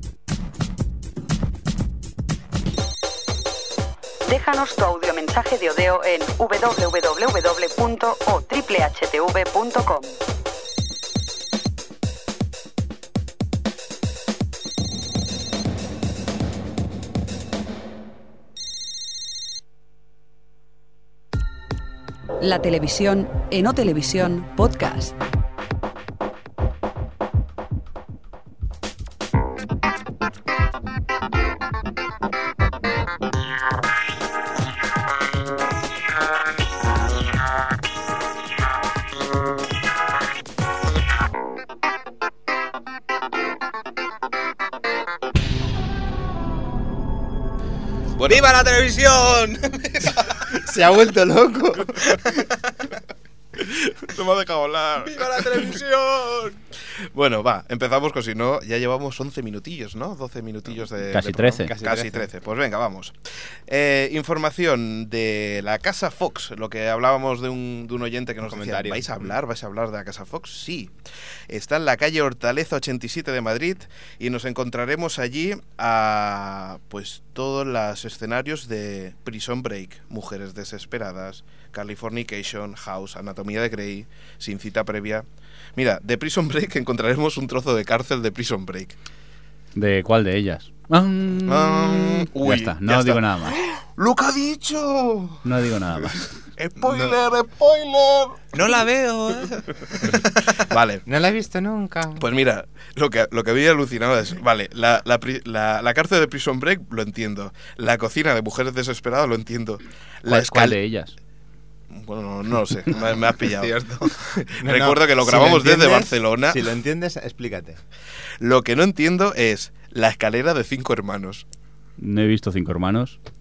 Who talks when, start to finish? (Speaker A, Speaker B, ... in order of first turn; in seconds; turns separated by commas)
Speaker A: 4.3-10.2, Speaker A: 22.4-25.2, Speaker B: 48.2-48.5, Speaker C: 48.3-50.5, Speaker D: 50.5-52.2, Speaker C: 52.0-52.4, Speaker B: 53.6-55.7, Speaker C: 55.0-56.6, Speaker B: 57.1-63.2, Speaker E: 61.1-61.7, Speaker D: 61.6-62.3, Speaker B: 63.7-70.9, Speaker D: 68.4-69.4, Speaker B: 71.5-89.0, Speaker E: 89.8-93.6, Speaker B: 91.4-95.4, Speaker E: 95.4-96.3, Speaker B: 96.6-98.4, Speaker C: 96.9-97.2, Speaker C: 98.5-100.4, Speaker B: 100.1-101.0, Speaker D: 101.1-102.2, Speaker B: 102.2-110.8, Speaker E: 110.3-111.1, Speaker B: 111.9-116.6, Speaker C: 112.9-114.4, Speaker D: 114.6-117.8, Speaker B: 118.4-121.4, Speaker E: 122.0-123.2